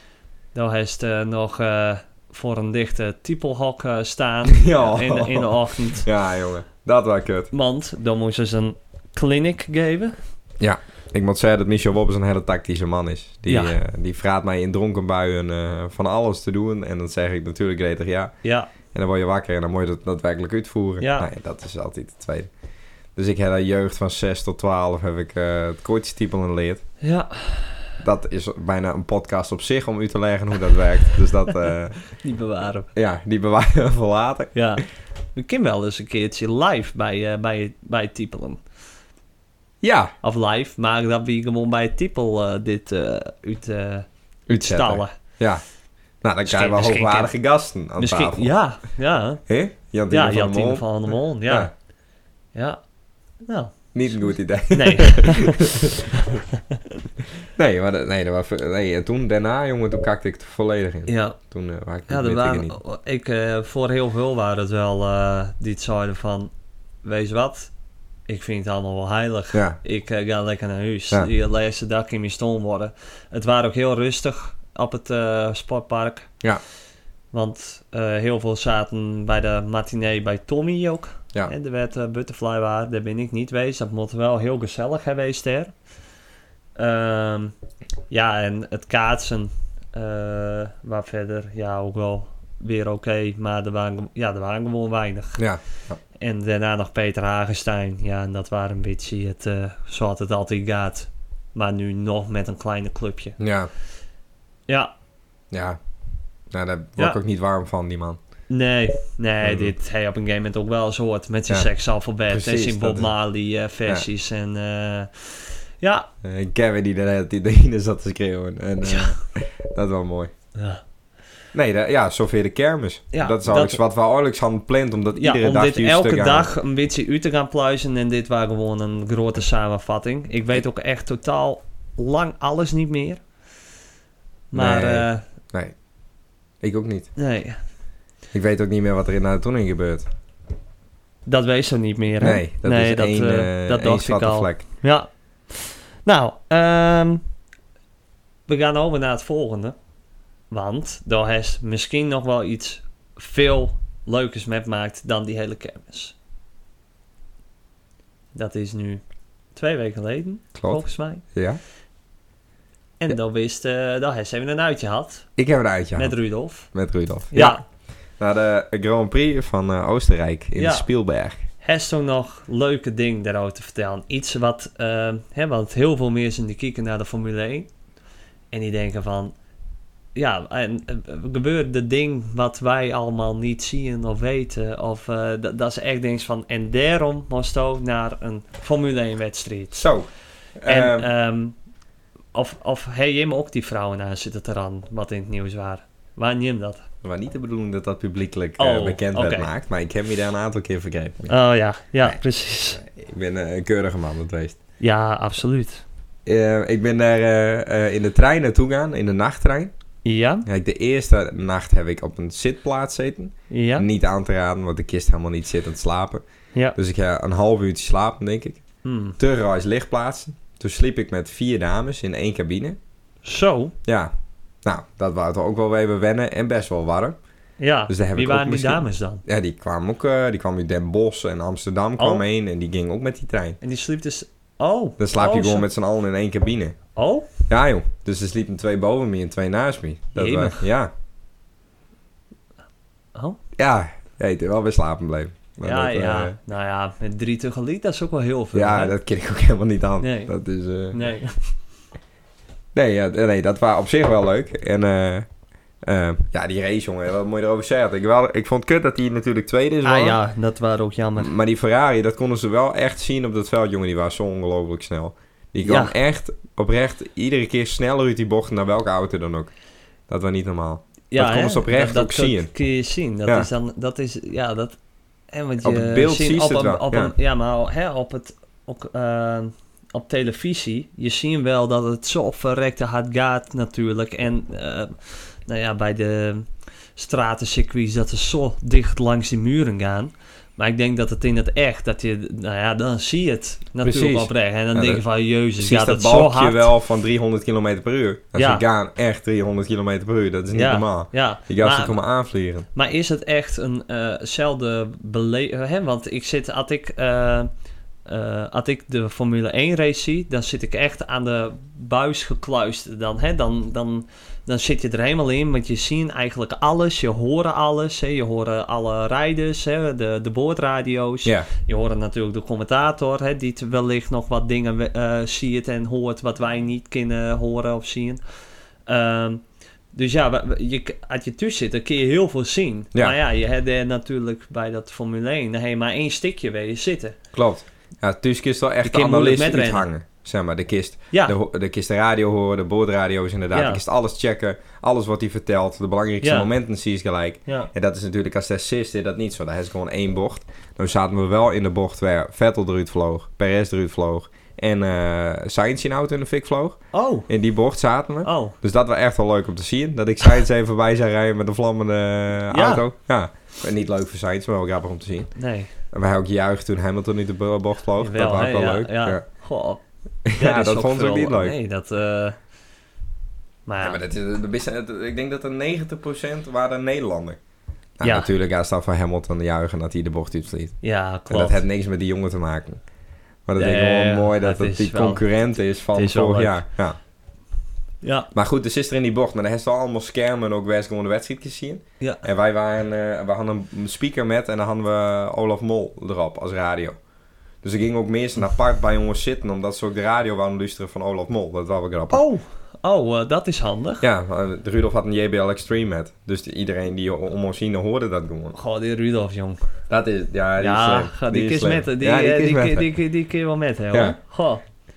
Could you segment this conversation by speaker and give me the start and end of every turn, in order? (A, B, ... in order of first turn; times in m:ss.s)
0:00.5-0:06.1 A
0:04.5-0:07.5 B
0:07.5-0:10.2 A
0:10.6-0:18.3 B
0:13.5-0:13.8 A
0:18.4-0:18.7 A
0:18.9-0:22.5 B
0:21.0-0:21.3 A
0:23.2-0:26.8 B
0:27.0-0:27.9 A
0:28.0-0:32.0 B
0:32.1-0:32.9 A
0:32.9-0:34.5 B
0:34.5-0:38.6 A
0:39.8-0:40.1 B
0:40.2-0:45.1 A
0:44.5-0:45.6 B
0:46.2-0:48.5 B
0:46.4-0:47.3 A
0:48.0-0:49.4 A
0:49.5-0:51.7 B
0:50.1-0:51.7 A
0:52.5-0:52.8 A
0:53.4-0:55.7 A
0:53.9-0:56.1 B
0:57.5-1:02.8 B
1:01.0-1:01.4 A
1:02.1-1:06.5 A
1:07.0-1:07.7 A
1:08.3-1:16.3 A
1:09.5-1:09.8 B
1:17.3-1:25.7 A
1:26.8-1:27.5 A
1:28.1-1:35.4 A
1:35.4-1:36.0 B
1:36.2-1:43.4 A
1:43.4-1:43.7 B
1:45.5-1:45.8 B
1:46.5-1:48.2 B
1:48.5-1:56.1 A
1:49.4-1:49.7 B
1:52.3-1:53.1 B
1:56.2-2:00.3 B
1:58.8-1:59.2 A
2:00.5-2:00.8 A
2:01.5-2:06.5 B
2:03.1-2:03.8 A
2:05.2-2:13.2 A
2:14.5-2:15.2 A
2:14.5-2:15.7 B
2:16.6-2:17.1 B
2:17.2-2:17.6 A
2:18.3-2:20.1 B
2:21.2-2:27.2 A
2:22.2-2:24.6 B
2:28.5-2:29.8 A
2:30.5-2:36.1 A
2:38.3-2:39.0 A
2:39.5-2:41.2 A
2:40.6-2:41.6 B
2:43.0-2:45.3 A
2:45.4-2:46.2 B
2:46.0-2:46.7 A
2:46.7-2:47.6 B
2:47.3-2:47.6 A
2:48.2-2:51.4 B
2:50.6-2:50.9 A
2:51.6-2:57.7 A
2:58.5-2:59.3 A
3:00.1-3:09.9 A
3:09.7-3:11.1 B
3:10.7-3:11.6 A
3:12.3-3:16.9 A
3:17.0-3:21.3 B
3:18.6-3:19.5 A
3:21.3-3:22.8 A
3:22.8-3:24.6 B
3:24.8-3:25.8 A
3:26.2-3:29.7 B
3:30.0-3:30.4 A
3:30.4-3:36.2 B
3:33.5-3:33.8 A
3:36.7-3:38.6 B
3:38.8-3:39.2 A
3:39.2-3:42.8 B
3:43.2-3:43.7 A
3:43.8-3:44.1 B
3:44.6-3:47.2 B
3:47.6-3:49.2 A
3:47.9-3:53.6 B
3:52.0-3:52.2 A
3:53.6-3:55.6 A
3:55.0-3:56.8 B
3:57.0-3:57.3 A
3:57.5-4:00.9 B
4:00.1-4:00.6 A
4:03.6-4:06.4 B
4:05.6-4:08.9 A
4:08.5-4:11.0 B
4:10.0-4:10.3 A
4:10.9-4:11.3 A
4:12.7-4:15.3 B
4:15.8-4:20.2 B
4:19.8-4:21.3 A
4:21.2-4:29.5 B
4:25.6-4:25.9 A
4:30.1-4:32.5 B
4:31.1-4:34.8 A
4:35.3-4:56.7 A
4:35.6-4:37.1 B
4:53.8-4:55.0 B
4:55.6-5:02.7 B
4:58.3-4:58.6 A
5:00.5-5:02.0 A
5:02.7-5:07.5 A
5:08.0-5:28.2 A
5:28.9-5:29.4 A
5:29.9-5:37.2 A
5:37.3-6:05.3 B
5:38.8-5:39.9 A
5:41.1-5:41.4 A
5:43.5-5:43.8 A
5:46.2-5:46.5 A
5:56.9-5:57.3 A
5:58.2-5:58.5 A
6:02.5-6:02.8 A
6:05.4-6:05.7 A
6:05.9-6:09.2 B
6:08.0-6:09.8 A
6:10.2-6:11.6 B
6:10.3-6:12.4 A
6:13.6-6:14.0 A
6:13.8-6:17.4 B
6:18.0-6:22.8 B
6:18.0-6:18.3 A
6:20.8-6:21.6 A
6:23.4-6:27.0 B
6:23.6-6:25.3 A
6:25.9-6:26.6 A
6:28.0-6:28.3 A
6:28.3-6:37.0 B
6:37.6-6:42.2 B
6:42.1-6:44.0 A
6:44.0-6:48.6 B
6:48.5-6:49.6 A
6:49.9-6:52.9 B
6:50.6-6:54.6 A
6:53.9-6:54.2 B